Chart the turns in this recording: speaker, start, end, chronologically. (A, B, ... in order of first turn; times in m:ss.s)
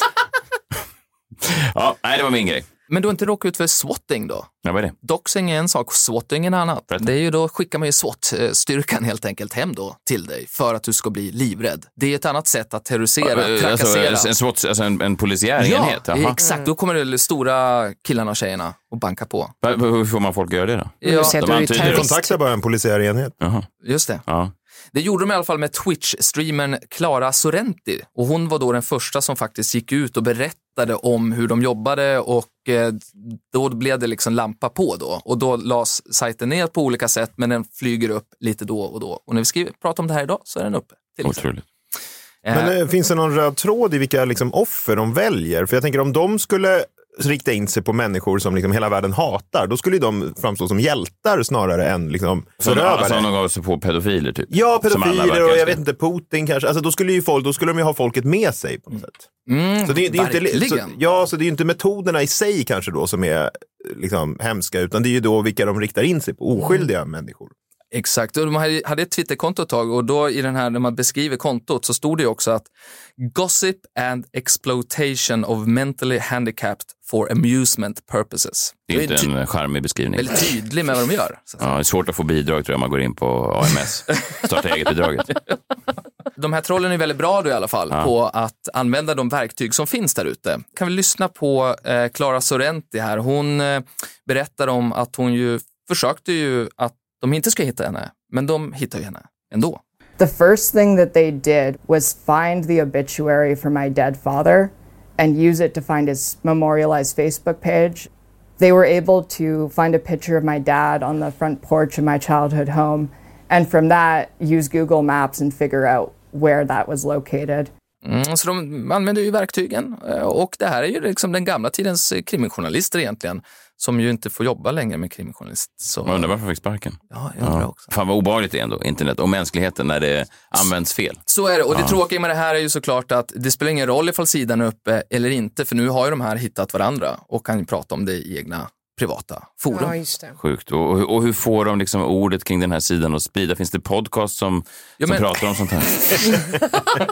0:01.4-0:02.6 A
0:02.9-0:14.3 B
0:04.6-0:05.0 A
0:13.2-0:16.4 A
0:15.6-0:19.5 B
0:16.4-0:16.7 C
0:19.6-0:22.1 A
0:21.0-0:21.8 B
0:21.0-0:22.4 C
0:21.8-0:23.4 D
0:23.4-0:23.7 A
0:23.8-0:24.2 B
0:24.2-0:24.5 A
0:24.9-0:41.4 B
0:41.2-0:41.6 A
0:42.4-0:42.8 B
0:42.5-0:53.3 D
0:52.6-0:55.8 A
0:54.5-0:59.3 D
0:59.5-1:01.0 B
0:59.8-1:07.5 D
1:07.9-1:19.3 B
1:18.9-1:20.5 A
1:20.2-1:21.7 B
1:21.6-1:25.4 A
1:26.4-1:39.8 B
1:40.2-1:57.7 E
1:58.0-2:06.3 B
2:06.0-2:11.2 A
2:07.1-2:07.9 B
2:11.3-2:20.0 B
2:19.7-2:20.4 C
2:20.4-2:26.4 A
2:25.0-2:25.3 B